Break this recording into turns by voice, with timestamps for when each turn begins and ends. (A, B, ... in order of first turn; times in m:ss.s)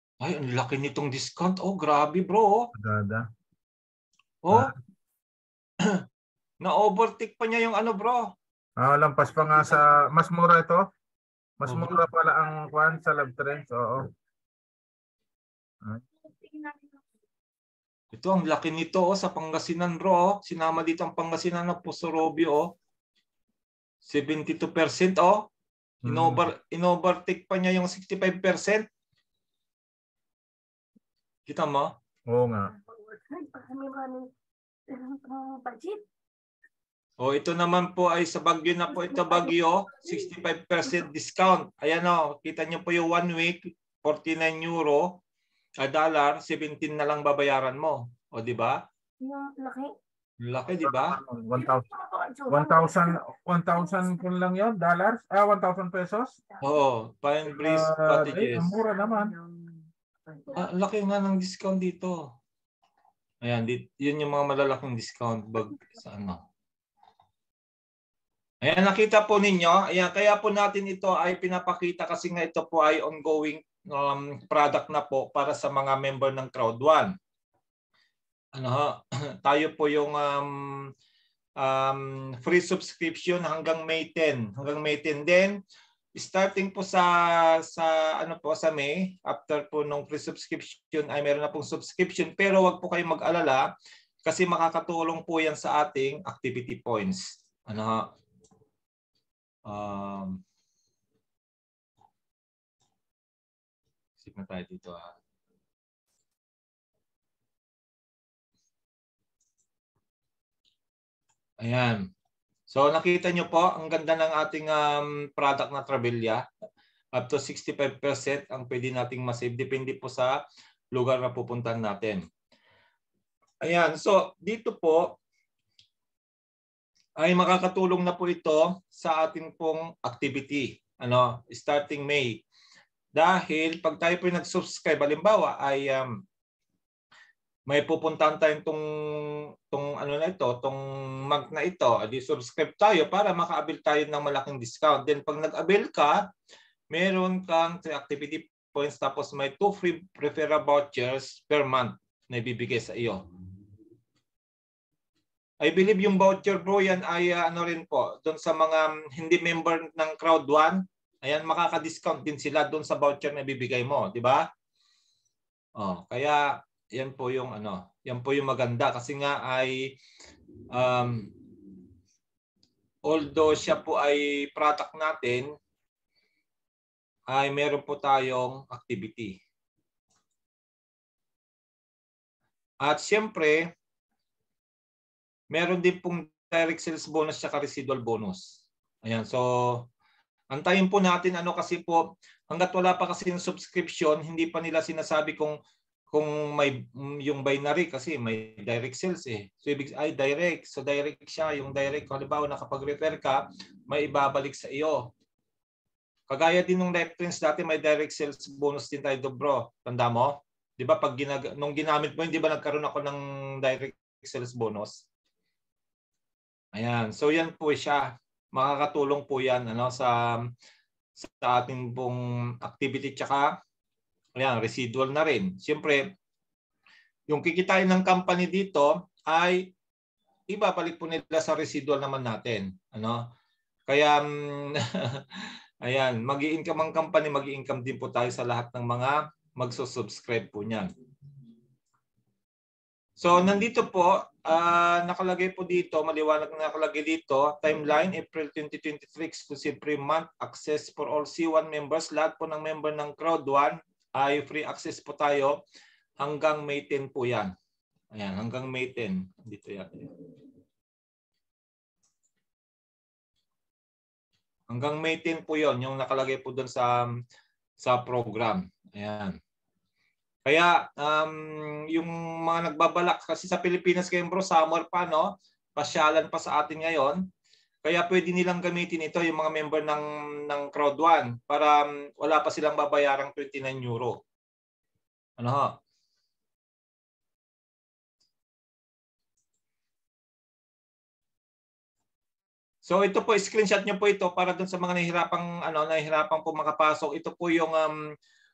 0:00.2-0:02.7 A
0:02.7-0:03.2 B
0:04.4-0:04.7 A
0:06.6-0:08.3 A
0:08.8-0:10.8 B
0:11.6-0:14.1 B
0:11.6-0:12.0 A
0:16.2-0:17.0 C
0:18.1-0:22.7 A
0:24.0-0:25.5 A
0:26.0-0:26.5 B
0:26.0-0:28.8 A
0:31.5-0:31.9 A
0:32.3-0:32.7 B
0:32.7-0:34.3 C
0:34.9-0:36.0 C
0:37.2-0:45.2 A
0:38.9-0:40.3 C
0:45.8-0:48.8 A
0:49.2-0:49.9 C
0:50.4-0:51.2 A
0:50.8-0:51.8 B
0:51.5-0:53.2 C
0:52.5-0:56.3 B
0:53.8-0:54.2 C
0:56.6-0:58.7 A
0:57.5-0:59.3 B
1:00.5-1:02.2 A
1:03.4-1:06.4 A
1:08.6-1:17.1 A
1:18.6-1:20.9 A
1:21.6-1:25.6 A
1:26.1-1:33.6 A
1:34.2-1:38.0 A
1:39.7-1:40.4 A
1:44.2-1:45.1 A
1:51.6-1:52.0 A
1:52.7-1:56.4 A
1:57.2-2:00.4 A
2:00.9-2:02.2 A
2:03.6-2:05.2 A
2:07.2-2:12.4 A
2:13.1-2:16.1 A
2:17.7-2:26.2 A
2:26.9-2:33.2 A
2:35.6-2:44.4 A
2:45.8-2:49.7 A
2:50.7-2:51.3 A
2:53.0-2:55.5 A
2:57.3-2:59.4 A
3:02.8-3:03.6 A
3:05.5-3:08.5 A
3:09.0-3:09.8 A
3:10.5-3:15.5 A
3:16.1-3:25.1 A
3:26.3-3:35.0 A
3:36.8-3:40.1 A
3:41.2-3:43.5 A
3:44.4-3:46.0 A
3:47.3-3:49.7 A
3:50.5-3:53.2 A
3:53.9-4:00.9 A
4:03.2-4:15.6 A
4:16.2-4:17.5 A
4:18.1-4:20.1 A
4:24.7-4:27.1 A
4:27.8-4:29.3 A
4:30.4-4:37.2 A
4:37.8-4:44.2 A
4:45.4-4:45.8 A
4:52.8-4:57.9 A